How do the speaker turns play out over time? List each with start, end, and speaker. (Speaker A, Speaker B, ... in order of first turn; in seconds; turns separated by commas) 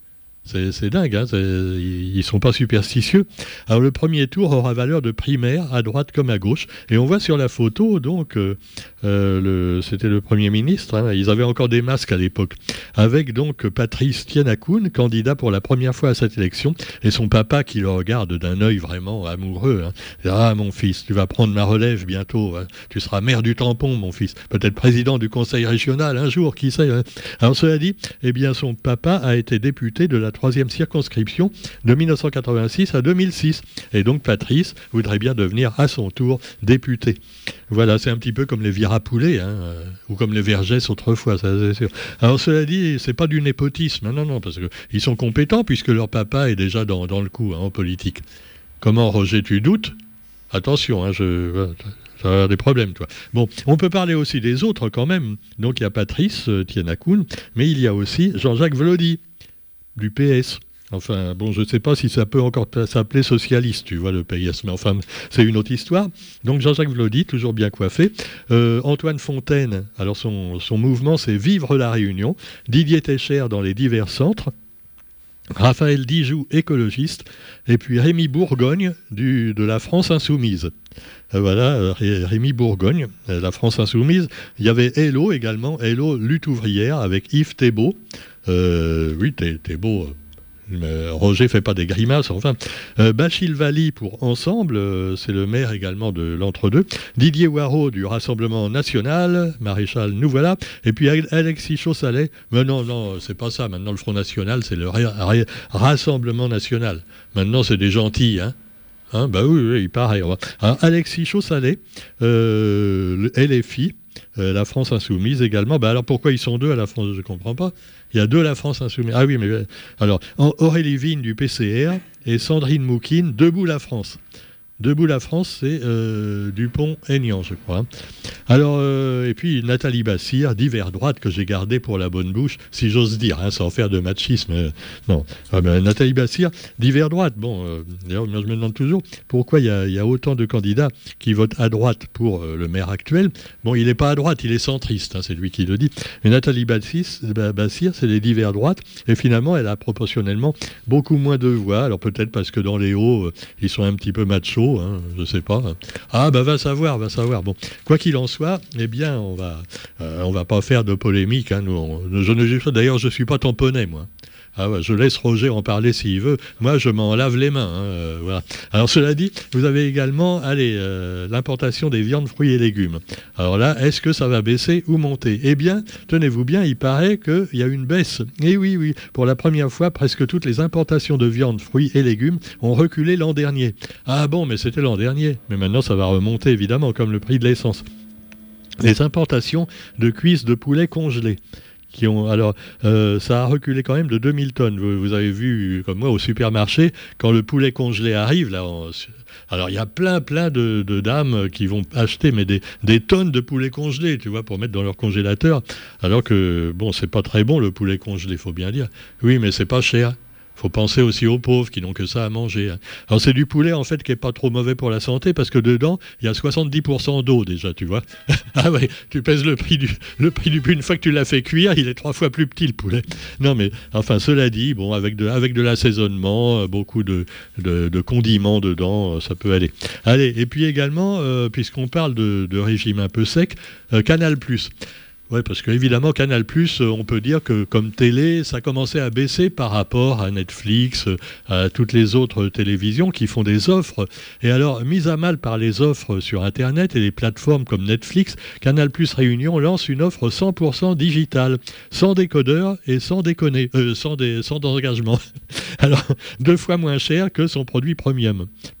Speaker A: 0.4-48.2, Speaker A: 48.8-49.9, Speaker A: 50.5-59.2, Speaker A: 60.0-74.5, Speaker A: 75.6-80.7, Speaker A: 81.3-90.2, Speaker A: 90.7-108.5, Speaker A: 109.1-124.2, Speaker A: 124.8-127.9, Speaker A: 128.5-187.8, Speaker A: 188.8-191.4, Speaker A: 191.9-234.7, Speaker A: 235.3-258.5